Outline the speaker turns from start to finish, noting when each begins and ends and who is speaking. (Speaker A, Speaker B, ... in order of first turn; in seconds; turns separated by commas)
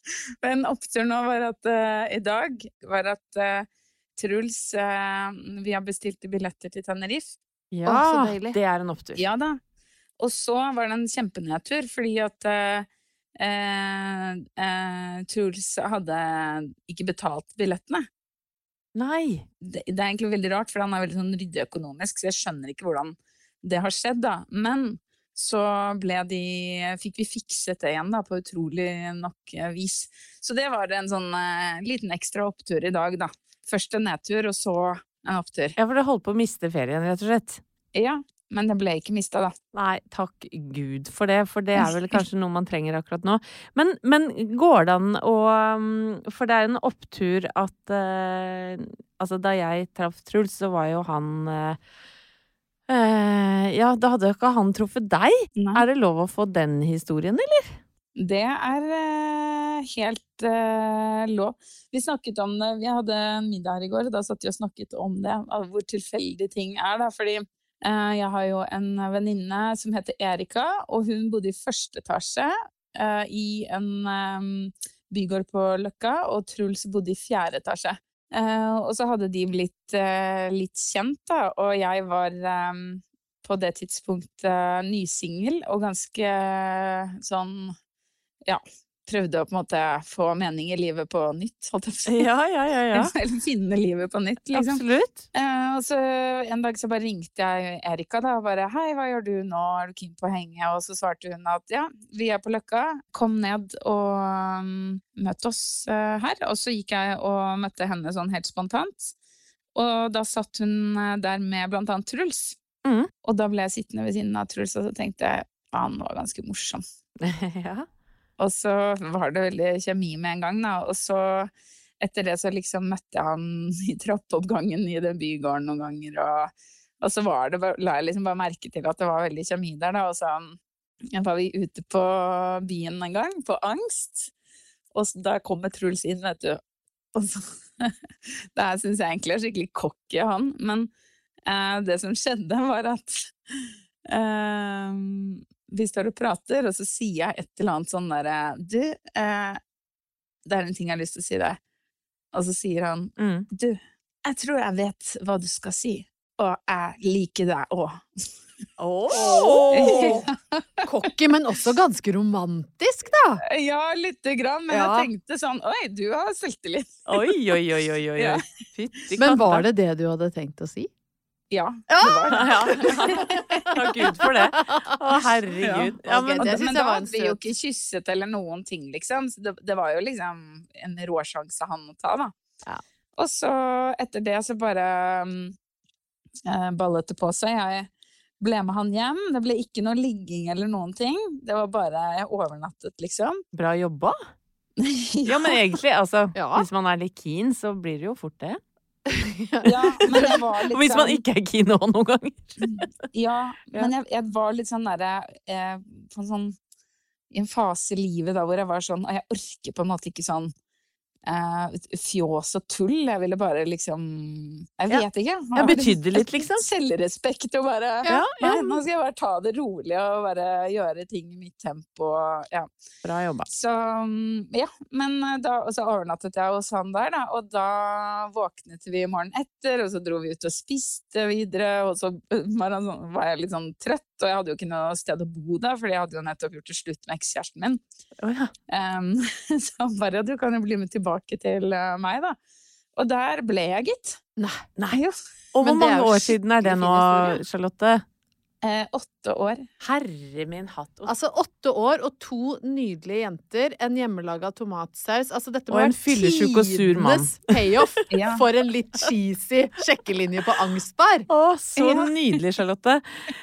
Speaker A: 0.4-7.4, Speaker B: 7.7-9.2, Speaker C: 7.8-8.6, Speaker A: 9.2-9.6, Speaker A: 10.2-12.9, Speaker A: 13.4-18.0, Speaker B: 18.9-19.4, Speaker A: 19.6-35.8, Speaker B: 35.8-37.6, Speaker A: 37.9-39.5, Speaker B: 39.7-51.8, Speaker A: 41.8-42.2, Speaker B: 52.9-57.8, Speaker A: 55.6-55.9, Speaker A: 58.2-87.7, Speaker A: 88.5-92.3, Speaker B: 92.1-93.1, Speaker A: 92.9-94.8, Speaker B: 94.5-95.2, Speaker A: 95.3-109.2, Speaker A: 109.8-112.6, Speaker A: 113.2-116.8, Speaker B: 117.2-117.9, Speaker A: 118.4-130.6, Speaker A: 131.2-134.3, Speaker A: 134.9-136.6, Speaker A: 137.2-137.9, Speaker A: 138.6-140.9, Speaker A: 141.5-149.6, Speaker A: 150.5-151.6, Speaker A: 152.3-158.3, Speaker B: 153.2-153.5, Speaker B: 158.8-160.2, Speaker C: 159.1-160.3, Speaker A: 159.1-160.3, Speaker C: 160.8-163.4, Speaker A: 163.5-167.2, Speaker C: 164.7-165.1, Speaker B: 167.1-169.6, Speaker C: 169.2-170.9, Speaker A: 171.5-173.7, Speaker C: 171.9-174.9, Speaker B: 172.3-176.6, Speaker A: 175.6-182.3, Speaker C: 176.1-177.4, Speaker A: 183.2-185.6, Speaker A: 186.5-193.4, Speaker B: 193.5-194.1, Speaker A: 194.8-195.5, Speaker B: 195.3-198.6, Speaker C: 196.3-196.7, Speaker C: 199.1-200.3, Speaker A: 199.6-201.2, Speaker B: 200.6-202.6, Speaker A: 202.6-206.6, Speaker A: 207.3-210.5, Speaker A: 211.3-222.7, Speaker B: 214.9-216.7, Speaker C: 218.0-218.7, Speaker B: 218.1-218.6, Speaker B: 223.0-223.5, Speaker A: 223.5-237.8, Speaker B: 238.2-238.5, Speaker A: 238.7-242.4, Speaker A: 243.0-244.2, Speaker C: 244.4-244.7, Speaker A: 244.9-245.2, Speaker B: 245.5-248.0, Speaker C: 245.6-247.4, Speaker A: 248.6-249.7, Speaker B: 249.8-251.1, Speaker C: 251.1-261.3, Speaker B: 255.7-258.1, Speaker A: 258.1-258.4, Speaker B: 261.3-263.0, Speaker A: 261.8-262.4